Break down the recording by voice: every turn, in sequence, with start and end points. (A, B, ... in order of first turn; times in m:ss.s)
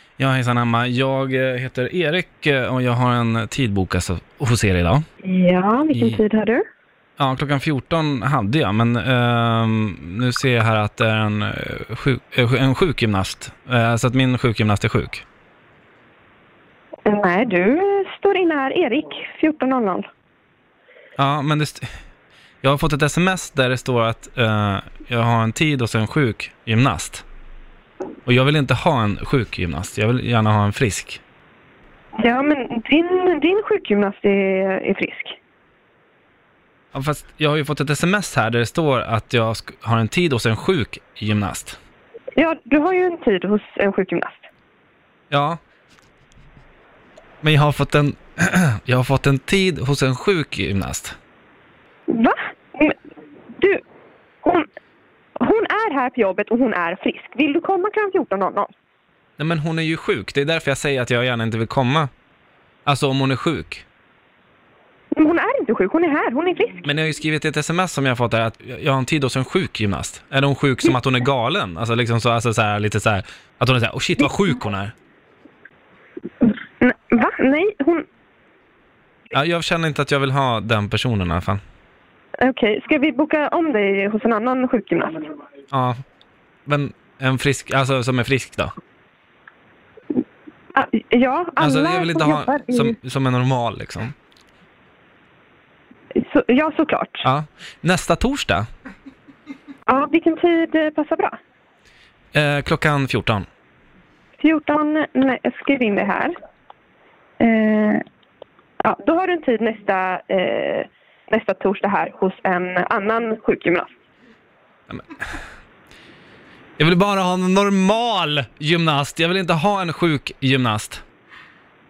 0:00.2-0:05.0 A
0:05.2-0:06.6 B
0:05.9-0:06.2 A
0:07.2-0:15.2 A
0:17.1-0:20.1 B
0:21.2-0:21.8 A
0:22.6-0:27.2 A
0:28.3-0:31.2 A
0:32.2-0:35.4 B
0:36.9-0:41.8 A
0:42.4-0:44.5 B
0:45.3-0:45.6 A
0:47.4-0:51.2 A
0:52.1-0:53.0 B
0:55.4-0:58.7 B
0:59.4-1:02.1 A
1:02.9-1:03.8 A
1:05.1-1:06.9 B
1:06.8-1:14.9 A
1:16.4-1:18.0 B
1:19.3-1:21.6 A
1:22.4-1:25.3 B
1:25.7-1:26.0 A
1:26.7-1:28.7 A
1:30.7-1:33.0 B
1:31.6-1:34.1 A
1:36.2-1:37.3 B
1:37.2-1:38.6 A
1:39.9-1:41.4 B
1:42.3-1:43.4 A
1:44.4-1:46.3 B
1:47.4-1:48.0 B
1:48.8-1:53.9 B
1:54.9-1:55.2 A
1:56.8-2:01.0 A